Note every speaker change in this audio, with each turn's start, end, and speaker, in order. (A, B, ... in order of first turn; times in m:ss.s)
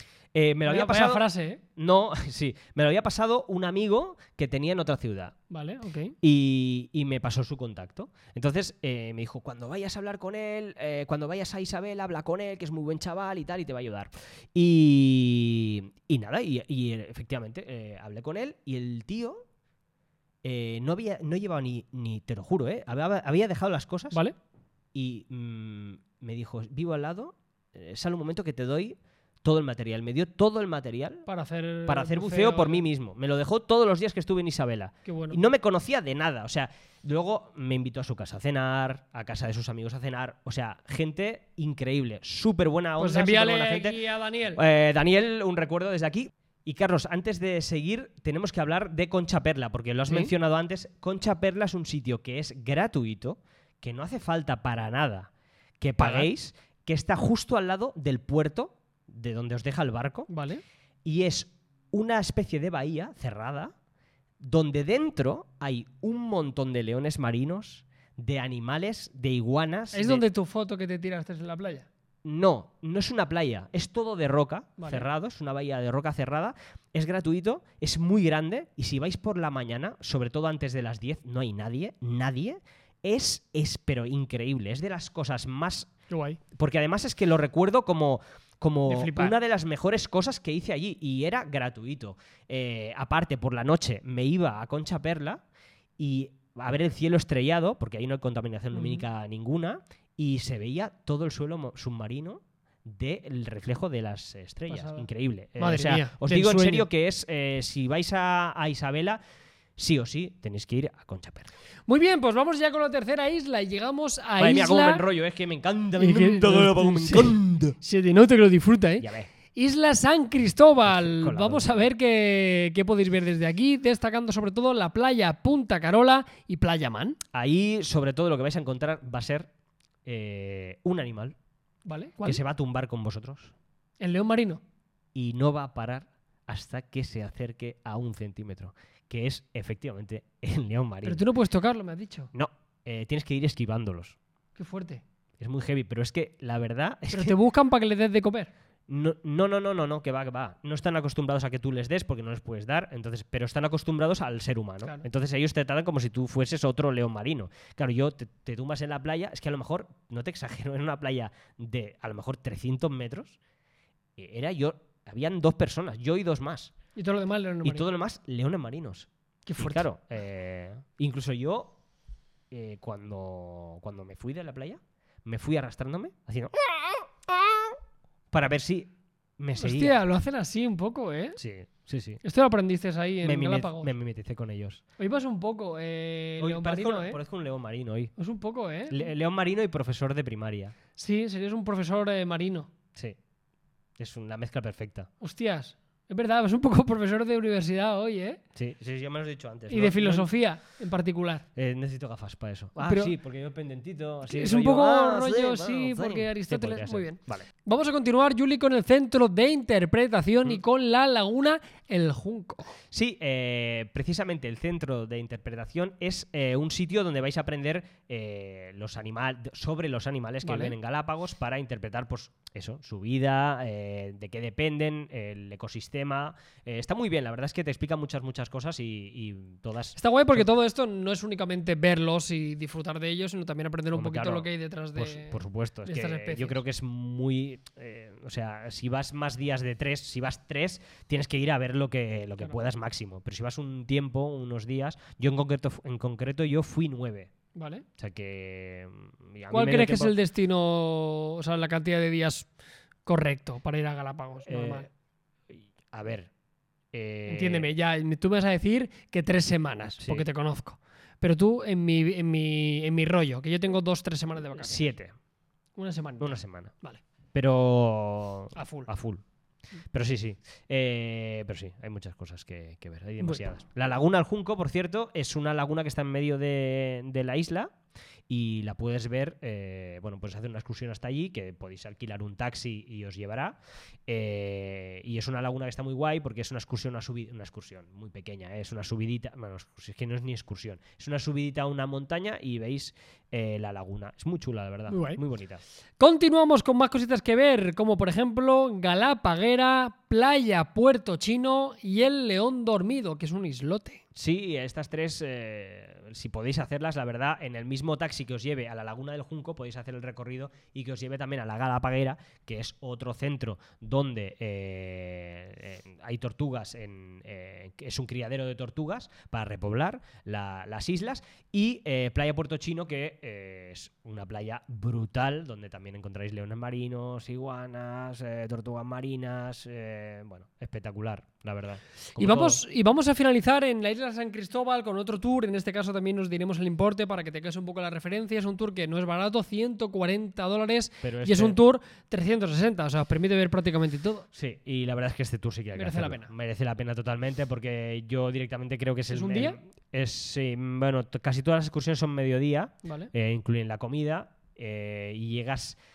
0:00.3-0:01.2 A
0:00.7-0:01.6 B
0:01.8-0:05.4 A
0:05.5-0:06.2 B
0:06.2-0:19.4 A
0:20.4-0:24.2 A
0:24.9-0:31.3 A
0:31.3-0:32.8 B
0:31.9-0:44.0 A
0:35.0-0:35.4 B
0:43.0-0:44.6 B
0:44.6-1:00.3 A
0:56.0-0:56.3 B
1:00.3-1:00.6 B
1:01.0-1:03.7 A
1:04.4-1:10.2 A
1:09.9-1:11.9 B
1:12.2-1:25.9 A
1:14.8-1:15.1 B
1:26.1-1:26.4 B
1:26.5-1:35.4 A
1:28.9-1:29.4 B
1:36.0-1:49.2 A
1:38.7-1:39.0 B
1:44.7-1:45.1 B
1:45.6-1:46.9 B
1:49.8-1:51.5 A
1:51.9-1:55.0 B
1:54.4-1:57.8 A
1:56.0-2:07.2 B
1:59.0-1:59.3 A
2:00.9-2:01.9 A
2:07.3-2:09.5 A
2:10.0-2:11.4 A
2:11.9-2:12.4 B
2:12.2-2:13.5 A
2:14.0-2:14.6 B
2:15.1-2:21.2 A
2:21.0-2:22.3 B
2:22.3-2:24.2 A
2:24.6-2:25.0 B
2:25.4-2:27.4 A
2:27.1-2:28.5 B
2:28.9-2:43.4 A
2:44.2-2:46.7 A
2:47.0-2:47.9 B
2:47.6-2:51.8 A
2:49.5-2:49.9 B
2:52.5-2:57.8 A
2:58.3-3:00.0 A
2:59.6-3:01.4 B
3:01.4-3:02.2 A
3:02.2-3:03.9 B
3:03.2-3:04.8 A
3:05.0-3:07.2 B
3:06.4-3:08.1 A
3:08.2-3:09.1 B
3:08.9-3:10.8 A
3:11.0-3:12.7 B
3:14.0-3:15.1 A
3:15.2-3:18.4 B
3:18.6-3:20.3 A
3:19.7-3:21.4 B
3:21.6-3:27.5 A
3:22.8-3:23.1 B
3:24.3-3:32.8 B
3:32.9-3:50.4 A
3:40.4-3:40.8 B
3:50.0-3:56.6 B
3:53.9-4:07.3 A
4:07.6-4:07.9 B
4:08.0-4:10.1 A
4:09.5-4:12.5 B
4:13.1-4:14.9 B
4:14.5-4:14.9 A
4:15.5-4:16.3 A
4:16.9-4:17.7 A
4:17.3-4:24.9 B
4:20.0-4:20.3 A
4:24.6-4:25.2 A
4:25.8-4:27.0 B
4:26.2-4:26.7 A
4:27.3-4:29.2 A
4:28.6-4:28.9 B
4:29.9-4:37.7 A
4:38.3-4:55.6 A
4:54.9-4:55.2 B
4:56.0-5:04.0 B
5:04.1-5:32.6 A
5:32.2-5:44.3 B
5:41.0-5:41.6 A
5:44.3-5:55.8 A
5:45.8-5:46.3 B
5:49.1-5:49.6 B
5:52.8-5:53.1 B